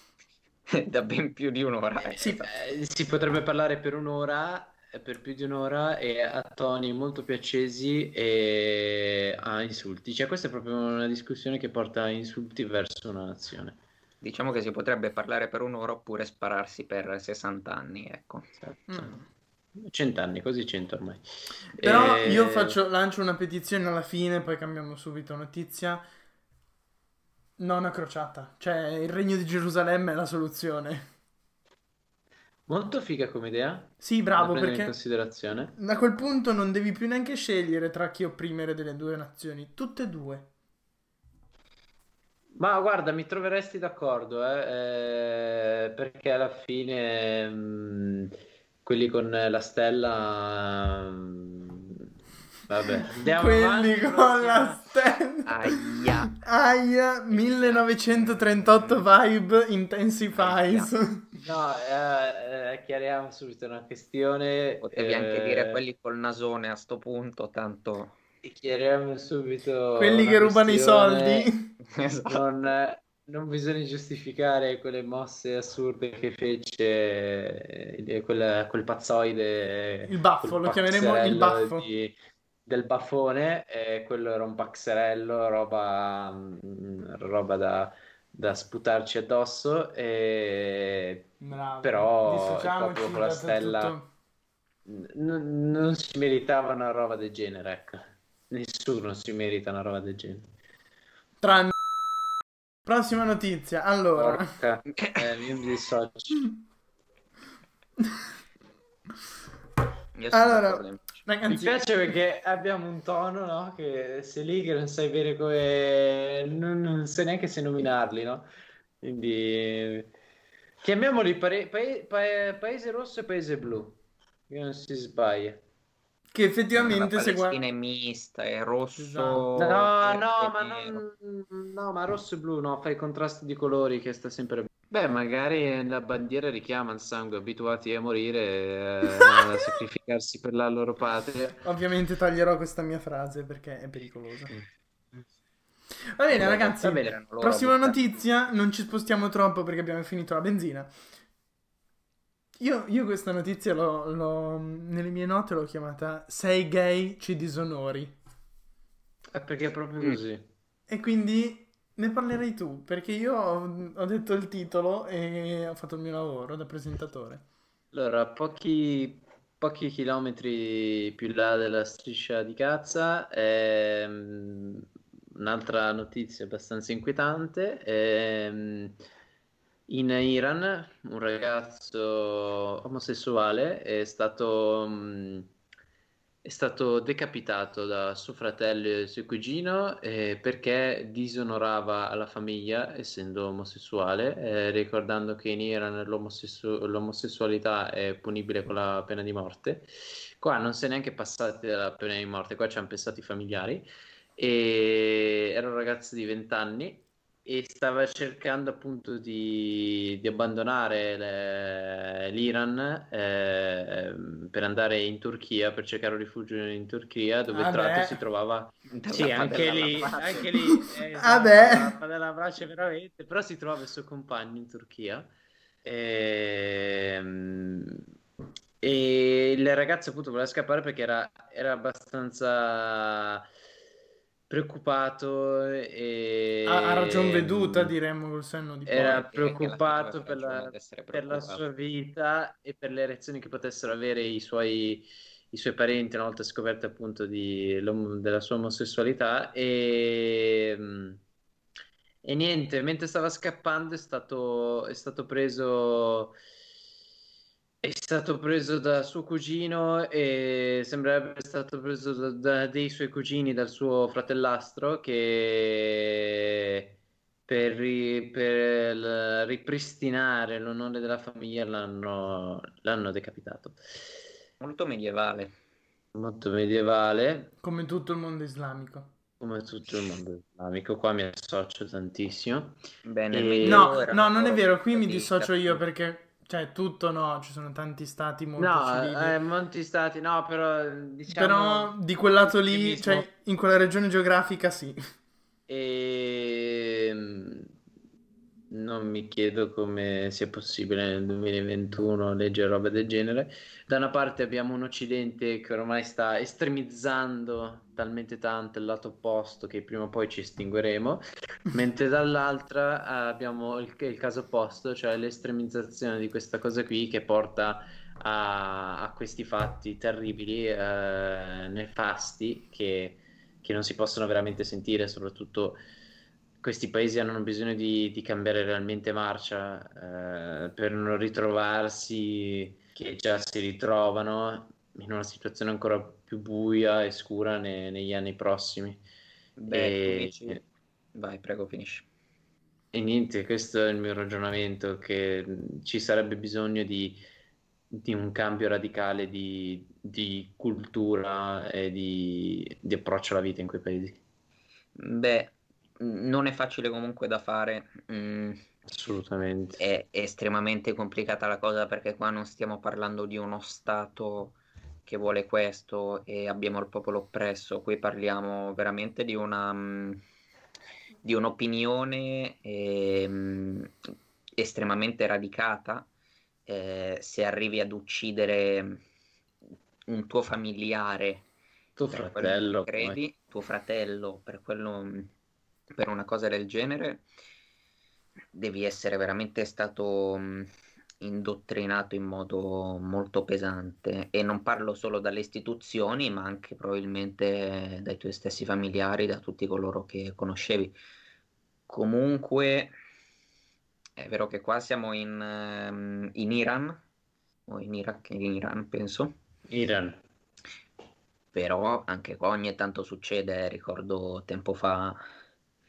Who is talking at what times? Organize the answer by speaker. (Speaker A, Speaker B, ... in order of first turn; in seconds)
Speaker A: 0.7-2.5, 14.2-18.5, 55.5-56.4, 57.3-59.1, 60.3-60.9, 64.8-68.2, 71.9-72.4, 105.0-105.3, 110.2-111.2, 126.8-131.0, 146.3-148.0, 218.9-220.5, 239.0-241.7, 274.6-275.6, 283.0-285.8, 339.6-340.6, 341.1-342.1, 355.0-358.6, 359.8-370.2, 371.2-373.9, 374.6-376.1, 376.7-379.0, 380.1-381.5, 382.1-385.3, 385.9-387.2, 388.5-390.7, 391.2-400.9, 401.9-402.9, 404.2-407.0, 407.7-409.4, 411.5-415.2
Speaker B: 2.2-2.4, 18.9-19.2, 21.8-26.1, 27.6-31.1, 34.0-35.0, 35.8-40.5, 53.2-61.4, 70.0-71.8, 80.0-81.9, 91.4-94.1, 101.4-101.7, 102.8-104.6, 108.0-108.3, 110.3-111.8, 126.3-127.6, 129.0-129.8, 141.7-144.6, 146.2-150.9, 152.6-158.2, 160.9-167.4, 217.5-218.2, 220.7-222.0, 236.7-239.3, 277.6-279.1, 283.6-289.4, 291.3-295.0
Speaker C: 2.4-13.8, 19.8-21.2, 21.8-22.8, 32.7-35.7, 42.6-52.0, 52.7-54.8, 61.4-65.8, 68.4-71.5, 72.3-82.1, 82.7-94.0, 94.9-100.5, 104.2-106.5, 111.5-118.5, 119.0-120.1, 120.8-125.6, 129.6-141.6, 146.3-147.1, 159.3-160.5, 167.9-179.0, 179.9-185.5, 186.4-203.9, 204.4-225.3, 225.8-228.1, 228.8-233.5, 234.5-237.9, 238.9-251.2, 252.2-256.4, 257.8-267.0, 267.5-273.8, 276.1-277.5, 279.4-282.8, 283.3-284.0, 288.6-293.3, 295.7-297.7, 298.7-325.8, 326.6-339.0, 339.7-340.6, 342.9-347.2, 347.9-354.2, 358.9-359.8, 382.0-383.2, 409.7-410.2